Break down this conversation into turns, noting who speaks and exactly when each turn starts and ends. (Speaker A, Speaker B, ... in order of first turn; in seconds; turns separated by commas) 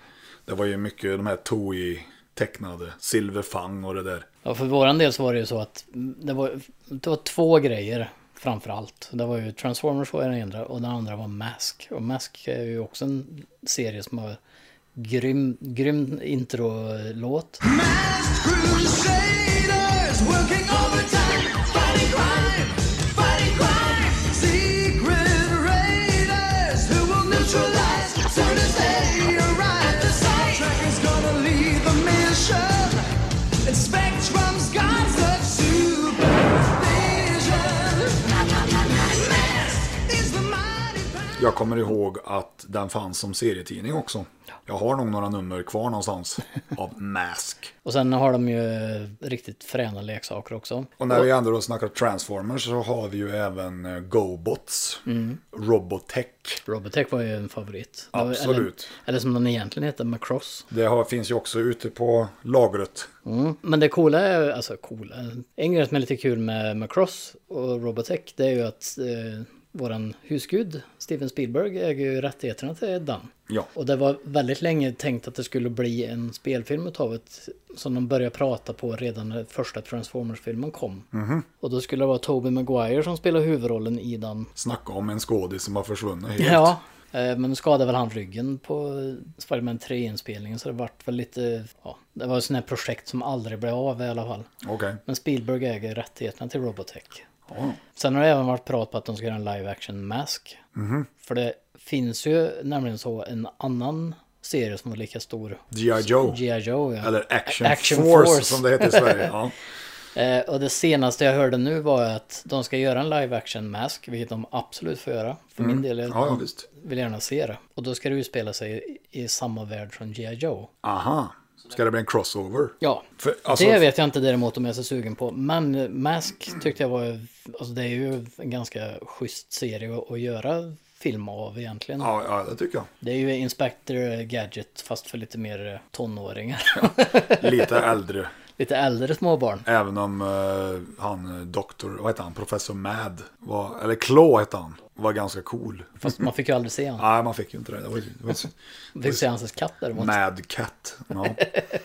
Speaker A: 0.5-4.3, Speaker B: 4.4-14.4, Speaker B: 14.9-17.6, Speaker C: 17.6-33.1, Speaker C: 33.6-41.5, Speaker A: 41.4-47.7, Speaker B: 47.9-51.2, Speaker A: 51.0-56.6, Speaker B: 55.1-55.4, Speaker B: 56.7-60.7, Speaker A: 58.1-58.9, Speaker A: 60.7-63.1, Speaker B: 63.2-81.1, Speaker A: 81.1-81.5, Speaker B: 81.6-84.5, Speaker A: 84.6-86.7, Speaker B: 86.4-94.5, Speaker A: 94.6-95.0, Speaker B: 95.1-97.3, Speaker A: 97.5-97.8, Speaker B: 98.0-100.6, Speaker A: 100.8-101.1, Speaker B: 101.2-109.3, Speaker A: 105.7-106.4, Speaker A: 107.0-109.5, Speaker B: 110.2-120.7, Speaker A: 115.6-116.6, Speaker A: 120.8-123.8, Speaker B: 122.8-132.1, Speaker A: 132.0-132.9, Speaker B: 133.0-137.9, Speaker A: 136.8-138.3, Speaker B: 138.6-139.7, Speaker A: 139.7-146.2, Speaker B: 146.0-147.0, Speaker A: 147.0-149.2, Speaker B: 148.9-150.2, Speaker A: 149.9-151.4